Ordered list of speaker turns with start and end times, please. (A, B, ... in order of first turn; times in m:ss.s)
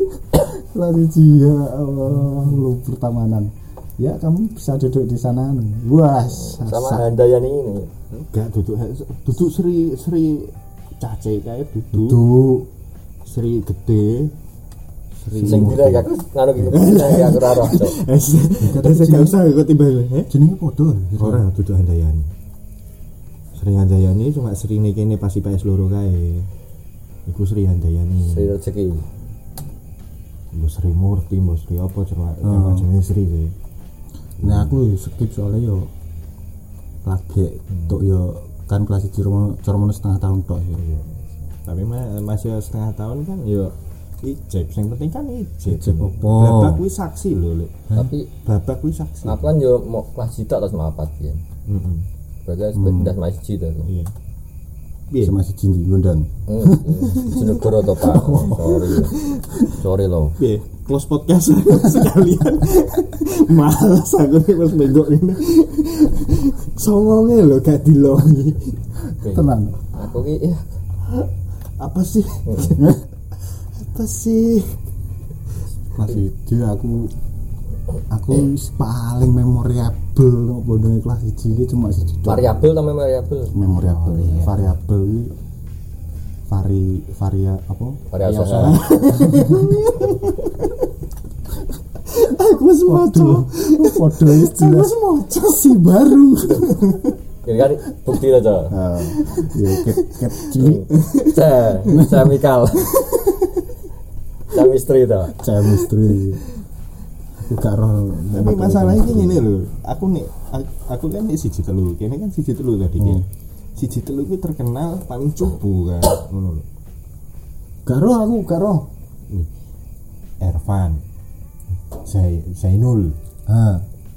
0:00.3-0:07.1 A
0:06.3-0:07.9 B
0:08.1-0:12.2 C
0:11.9-0:12.7 A
0:13.2-0:14.3 C
0:15.2-0:15.9 C
0:15.3-0:16.1 A
0:15.4-0:18.0 B
0:16.7-0:20.3 C
0:18.6-0:19.4 A
0:20.3-0:21.4 A
0:21.2-0:22.3 C
0:23.6-0:26.5 C
0:27.3-0:28.5 C
0:28.2-0:29.0 B
0:30.5-0:33.5 C
0:32.4-0:32.9 A
0:34.4-0:34.8 C
0:34.4-0:35.9 A
0:37.0-0:40.9 A
0:37.7-0:38.0 C
0:41.6-0:49.5 C
0:45.7-0:46.8 A
0:47.9-0:48.3 B
0:49.2-0:51.4 B
0:51.7-0:52.0 C
0:52.5-0:53.9 B
0:52.8-0:53.1 A
0:53.9-0:54.1 C
0:55.1-0:55.4 C
0:55.2-0:57.1 A
0:56.5-1:00.4 B
0:57.2-0:59.7 C
0:58.1-0:58.8 A
1:00.4-1:08.8 C
1:09.2-1:10.7 B
1:09.3-1:09.8 A
1:11.8-1:12.9 C
1:12.5-1:12.8 B
1:12.8-1:13.0 A
1:13.8-1:14.8 C
1:16.0-1:17.1 A
1:18.1-1:22.6 A
1:22.3-1:23.5 B
1:23.5-1:25.3 A
1:23.7-1:24.7 C
1:26.5-1:29.8 A
1:28.1-1:28.9 B
1:28.2-1:30.9 C
1:32.1-1:35.8 C
1:32.8-1:37.0 A
1:36.5-1:37.2 C
1:37.4-1:38.8 B
1:38.7-1:40.9 A
1:39.1-1:42.0 C
1:40.6-1:43.0 B
1:41.9-1:42.3 A
1:42.8-1:43.6 C
1:44.5-1:45.4 B
1:45.4-1:46.4 A
1:47.4-1:49.5 A
1:48.3-1:53.2 C
1:53.8-1:56.6 C
1:57.9-1:58.9 A
2:00.4-2:01.0 C
2:02.0-2:03.2 C
2:03.5-2:03.8 A